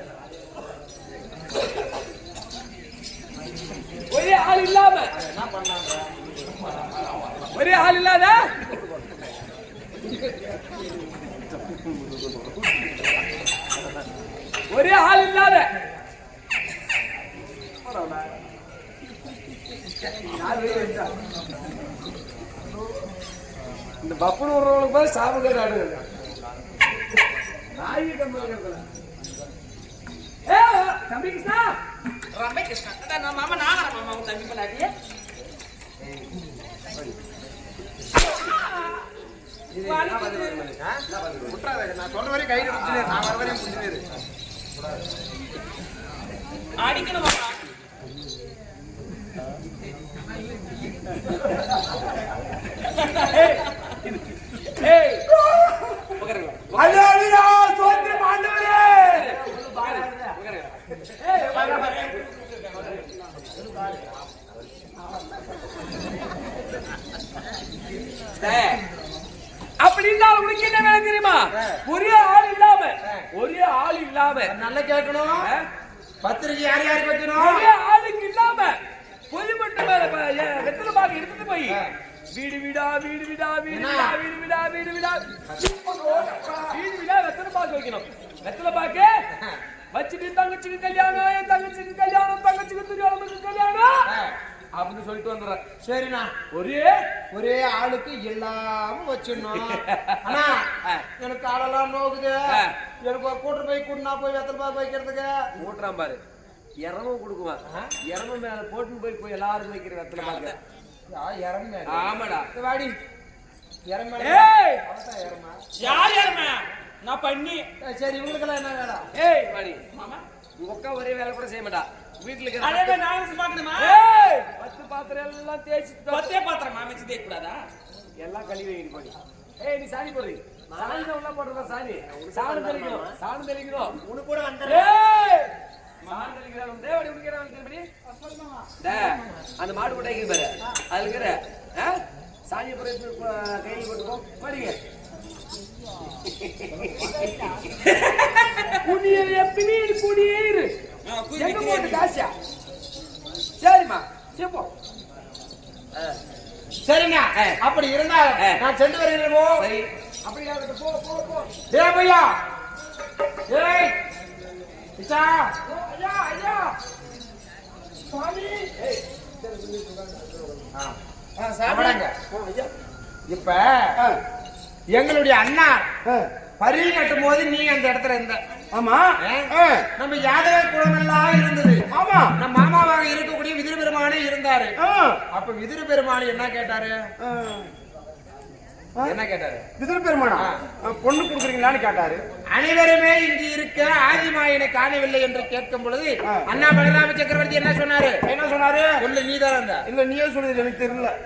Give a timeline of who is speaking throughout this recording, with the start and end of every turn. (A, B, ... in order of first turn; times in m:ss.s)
0:04.1-0:05.1 A
0:05.1-0:06.1 B
0:07.5-0:08.7 A
0:14.7-0:15.7 A
0:17.8-0:18.4 A
0:20.1-0:21.1 A
0:24.0-0:26.0 A
0:27.8-0:28.8 A
0:30.5-0:31.8 A
0:32.3-0:34.9 C
0:39.7-0:41.6 A
0:39.8-0:40.8 C
0:40.7-0:44.0 B
0:46.8-0:47.6 C
0:52.8-0:55.3 A
0:55.3-0:56.1 D
0:56.2-0:57.1 A
0:56.7-0:59.4 D
0:57.8-0:58.3 A
0:59.0-1:02.0 A
0:59.4-1:00.3 B
1:01.4-1:02.2 D
1:02.7-1:03.0 A
1:03.5-1:04.3 B
1:08.4-1:08.8 A
1:09.8-1:14.5 A
1:11.5-1:11.8 B
1:14.5-1:15.5 B
1:15.4-1:15.6 A
1:16.2-1:17.7 B
1:17.4-1:18.8 A
1:19.3-1:21.8 A
1:22.3-1:25.2 A
1:23.7-1:24.1 B
1:25.6-1:26.8 D
1:26.7-1:29.2 A
1:29.9-1:33.9 A
1:34.1-1:34.4 B
1:34.8-1:35.6 A
1:35.8-1:36.3 B
1:36.5-1:37.0 A
1:37.3-1:40.6 B
1:39.6-1:41.1 A
1:41.2-1:45.5 B
1:45.6-1:46.2 A
1:46.8-1:50.6 A
1:50.2-1:50.6 C
1:51.1-1:53.0 B
1:51.9-1:52.5 A
1:53.9-1:55.6 B
1:54.2-1:54.8 A
1:55.8-1:57.6 C
1:57.8-1:59.1 B
1:59.1-1:59.8 A
1:59.9-2:00.2 C
2:00.6-2:03.0 A
2:02.6-2:04.0 C
2:03.8-2:06.4 A
2:06.1-2:07.6 C
2:08.2-2:14.0 A
2:10.7-2:11.1 C
2:12.1-2:13.2 C
2:14.1-2:14.9 C
2:14.2-2:14.6 B
2:14.6-2:15.5 A
2:16.1-2:17.9 A
2:18.8-2:24.8 A
2:26.4-2:27.1 A
2:27.9-2:28.3 A
2:28.8-2:30.7 A
2:31.1-2:32.1 C
2:31.4-2:32.3 A
2:33.6-2:34.7 A
2:36.9-2:39.6 B
2:39.6-2:41.5 A
2:41.7-2:42.4 B
2:43.5-2:44.0 B
2:45.0-2:45.6 B
2:45.7-2:46.7 A
2:48.1-2:48.6 D
2:48.1-2:49.0 A
2:49.6-2:50.3 A
2:51.4-2:52.7 D
2:51.6-2:52.1 B
2:53.3-2:54.0 B
2:54.9-2:55.9 B
2:56.6-2:58.4 B
2:58.7-2:59.9 D
2:59.2-3:01.8 B
3:01.9-3:02.3 D
3:02.4-3:04.7 B
3:04.8-3:05.2 D
3:05.3-3:07.0 B
3:07.2-3:07.7 D
3:09.0-3:09.6 B
3:09.8-3:12.2 D
3:12.5-3:18.2 B
3:18.3-3:19.0 D
3:19.0-3:19.8 B
3:19.8-3:21.1 D